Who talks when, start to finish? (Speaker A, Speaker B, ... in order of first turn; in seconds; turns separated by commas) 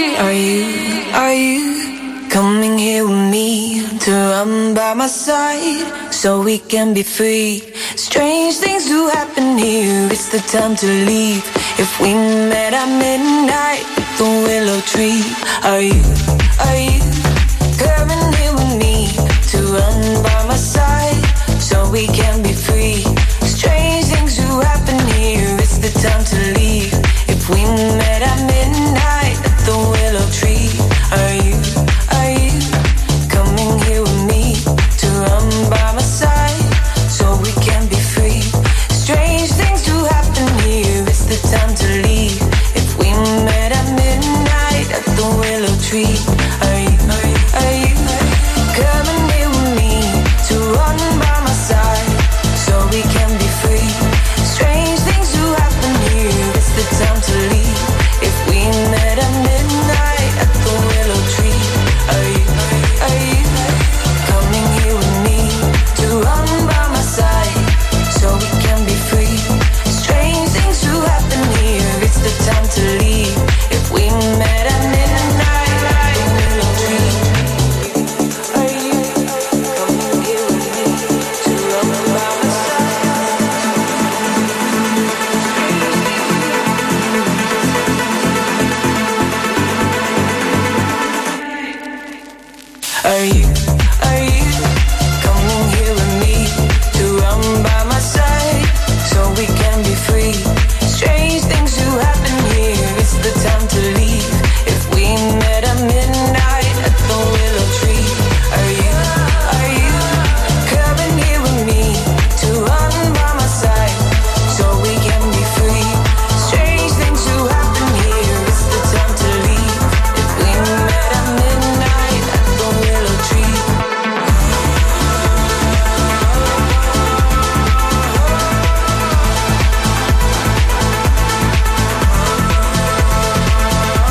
Speaker A: 0.1-83.6, Speaker A: 85.5-86.6, Speaker A: 93.0-123.7